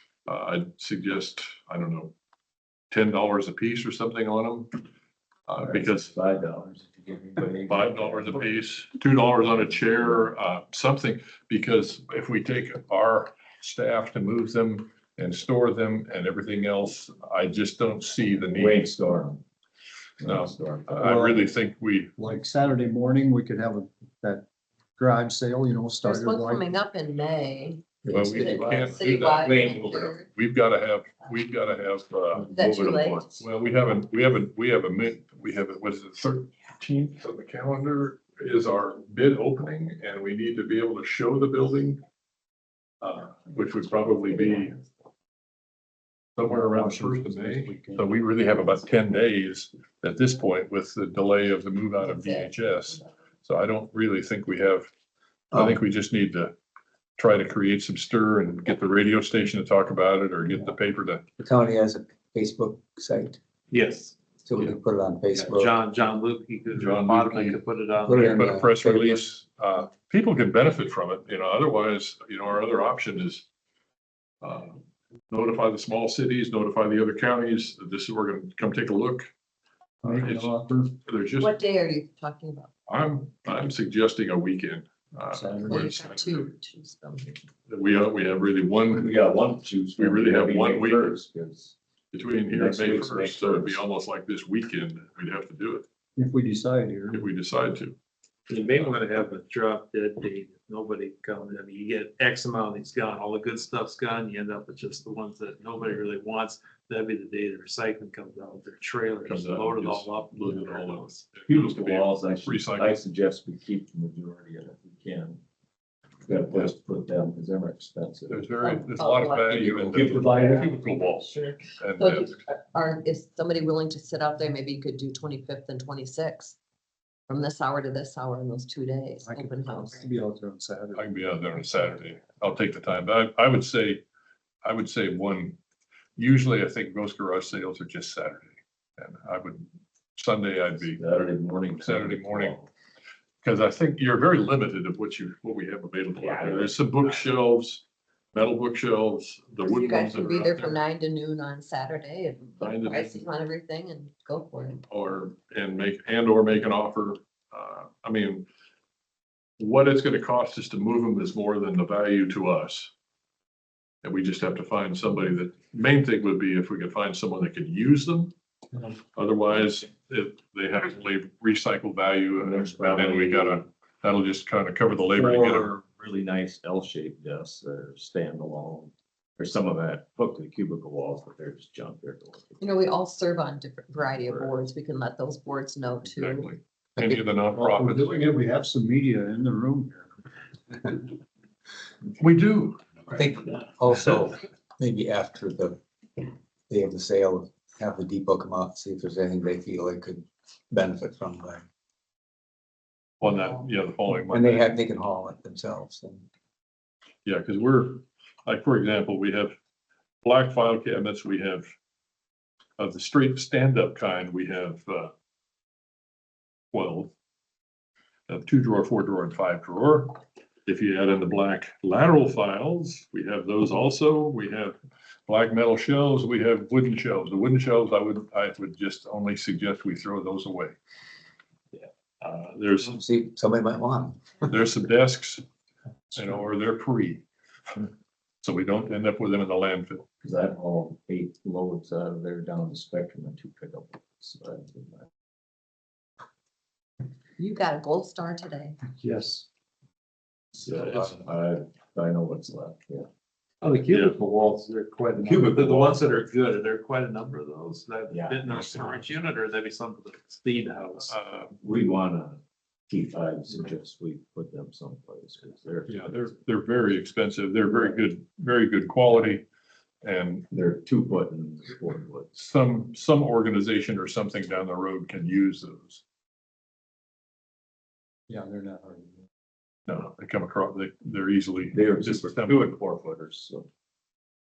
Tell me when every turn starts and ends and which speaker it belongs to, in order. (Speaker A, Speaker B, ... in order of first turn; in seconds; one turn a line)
Speaker A: 0.3-2.1
Speaker A: 2.9-4.7
Speaker A: 5.5-6.1
Speaker B: 5.6-8.7
Speaker A: 7.7-18.9
Speaker B: 9.4-10.3
Speaker B: 18.6-19.4
Speaker B: 20.2-21.2
Speaker A: 20.2-22.1
Speaker C: 21.0-21.5
Speaker C: 22.2-24.4
Speaker C: 25.0-26.7
Speaker D: 26.0-30.3
Speaker A: 28.1-32.5
Speaker E: 28.1-28.4
Speaker B: 28.5-30.1
Speaker B: 32.4-33.3
Speaker D: 32.5-33.4
Speaker A: 33.4-42.0
Speaker A: 43.0-44.8
Speaker A: 46.4-54.9
Speaker C: 46.5-48.2
Speaker D: 52.0-53.1
Speaker A: 55.5-56.5
Speaker E: 55.5-55.8
Speaker A: 57.2-61.2
Speaker E: 61.4-63.4
Speaker F: 63.7-64.2
Speaker E: 64.5-65.7
Speaker F: 65.3-68.5
Speaker A: 66.7-67.6
Speaker E: 68.0-69.2
Speaker A: 68.2-73.5
Speaker A: 74.4-79.3
Speaker C: 80.0-81.0
Speaker A: 80.0-80.5
Speaker A: 81.0-81.5
Speaker D: 81.4-82.7
Speaker A: 82.9-86.5
Speaker C: 85.3-85.8
Speaker D: 85.7-87.4
Speaker A: 87.7-89.2
Speaker B: 88.9-91.8
Speaker A: 90.0-91.2
Speaker A: 92.1-95.8
Speaker B: 92.5-93.8
Speaker C: 96.2-97.2
Speaker A: 97.1-98.0
Speaker F: 98.5-111.3
Speaker A: 109.2-113.0
Speaker B: 111.5-115.4
Speaker B: 116.2-118.5
Speaker A: 118.3-122.4
Speaker D: 118.6-119.9
Speaker B: 119.9-120.7
Speaker C: 119.9-120.7
Speaker D: 120.4-126.6
Speaker D: 127.3-130.0
Speaker C: 129.2-131.1
Speaker A: 131.0-134.0
Speaker A: 134.6-135.6
Speaker A: 136.2-141.0
Speaker B: 140.9-142.7
Speaker A: 141.8-142.6
Speaker A: 143.4-150.8
Speaker B: 146.2-146.8
Speaker D: 149.6-154.8
Speaker A: 152.6-153.2
Speaker A: 154.9-158.5
Speaker A: 159.6-162.9
Speaker A: 164.0-168.3
Speaker A: 169.2-175.8
Speaker B: 172.4-173.7
Speaker B: 175.1-182.6
Speaker D: 182.6-186.5
Speaker B: 184.2-184.6
Speaker A: 186.1-188.3
Speaker C: 187.5-190.1
Speaker A: 192.2-192.8
Speaker E: 193.2-195.8
Speaker E: 196.7-201.6
Speaker A: 203.2-204.7
Speaker E: 204.3-206.2
Speaker A: 207.2-209.6
Speaker A: 210.2-211.7
Speaker A: 212.8-215.1
Speaker A: 216.7-217.1
Speaker A: 218.3-224.8
Speaker A: 225.3-230.8
Speaker A: 232.2-233.0
Speaker E: 232.9-234.3
Speaker A: 234.5-235.4
Speaker A: 236.1-237.2
Speaker A: 238.4-240.1
Speaker B: 240.2-245.1
Speaker D: 247.4-248.8
Speaker C: 248.9-249.4
Speaker B: 250.6-253.1
Speaker A: 250.6-251.1
Speaker F: 253.6-261.2
Speaker B: 255.2-256.2
Speaker B: 258.1-259.0
Speaker A: 261.1-261.6
Speaker B: 261.6-266.2
Speaker A: 265.9-269.5
Speaker A: 270.0-270.5
Speaker B: 270.5-272.3
Speaker A: 272.4-276.0
Speaker C: 278.3-279.2
Speaker A: 279.9-282.8
Speaker B: 281.7-283.7